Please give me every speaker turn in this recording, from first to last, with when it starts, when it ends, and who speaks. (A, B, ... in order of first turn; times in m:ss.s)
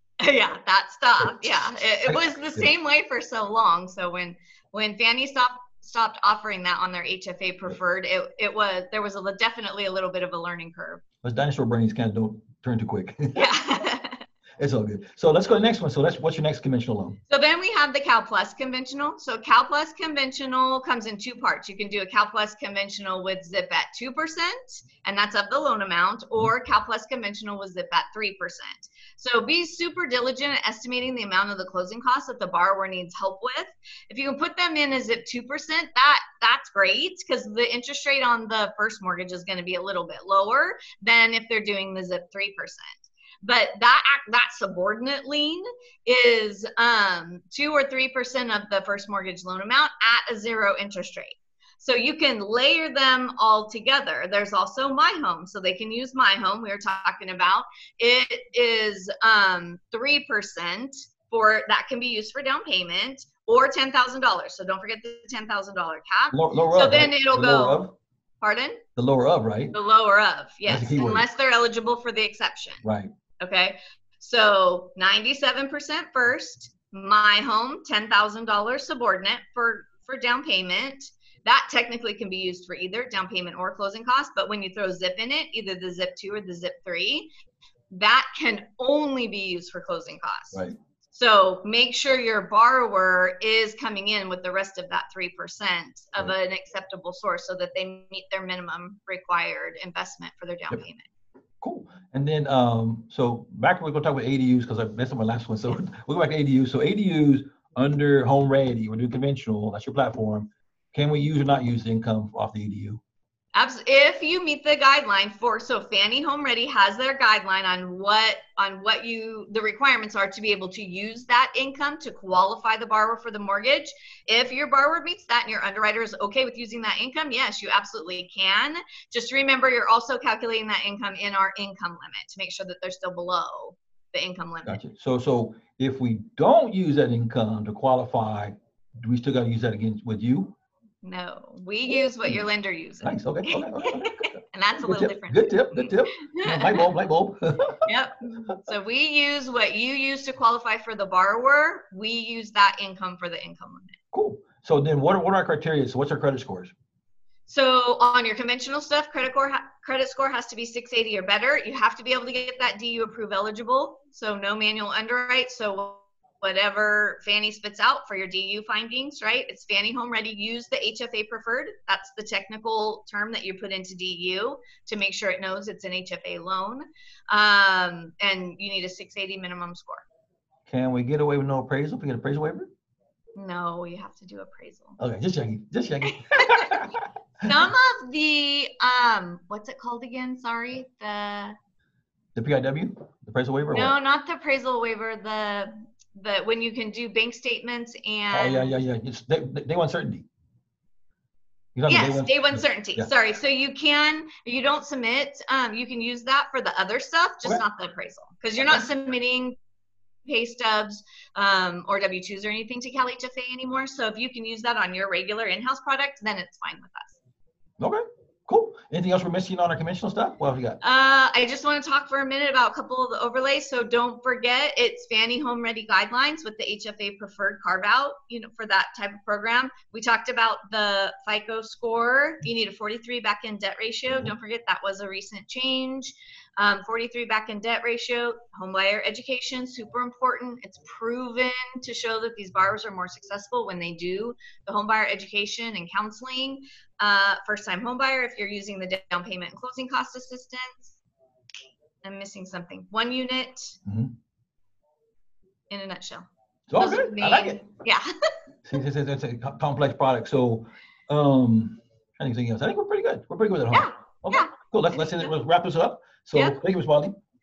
0:00.2-0:11.0 A
0:01.2-0:02.7 B
0:11.2-0:13.5 B
0:13.3-0:14.2 A
0:14.6-0:17.2 B
0:17.3-1:07.8 A
1:06.3-1:07.9 B
1:08.4-1:08.8 A
1:09.0-1:09.7 B
1:09.7-1:12.8 A
1:10.6-1:11.2 B
1:12.8-1:13.1 B
1:13.4-1:27.3 A
1:27.9-1:30.6 A
1:31.1-1:41.1 A
1:41.6-1:53.0 B
1:53.5-2:14.8 A
2:14.7-2:20.5 B
2:21.0-2:26.9 A
2:23.0-2:27.8 B
2:27.8-2:34.0 A
2:34.1-2:36.7 B
2:37.5-3:00.0 A
3:00.7-3:02.7 B
3:03.4-3:05.0 A
3:05.0-3:07.1 B
3:06.0-3:06.8 A
3:07.4-3:11.6 A
3:12.3-3:13.9 B
3:13.7-3:18.7 A
3:18.3-3:20.2 B
3:21.8-3:23.1 B
3:21.9-3:29.5 A
3:30.2-3:37.2 A
3:37.8-3:40.8 B
3:40.8-4:11.0 A
4:12.0-4:13.8 A
4:13.8-4:14.1 B
4:15.7-4:16.2 A
4:16.7-4:17.6 B
4:16.8-4:18.3 A
4:18.6-4:27.2 B
4:23.7-4:25.3 A
4:26.3-4:26.6 A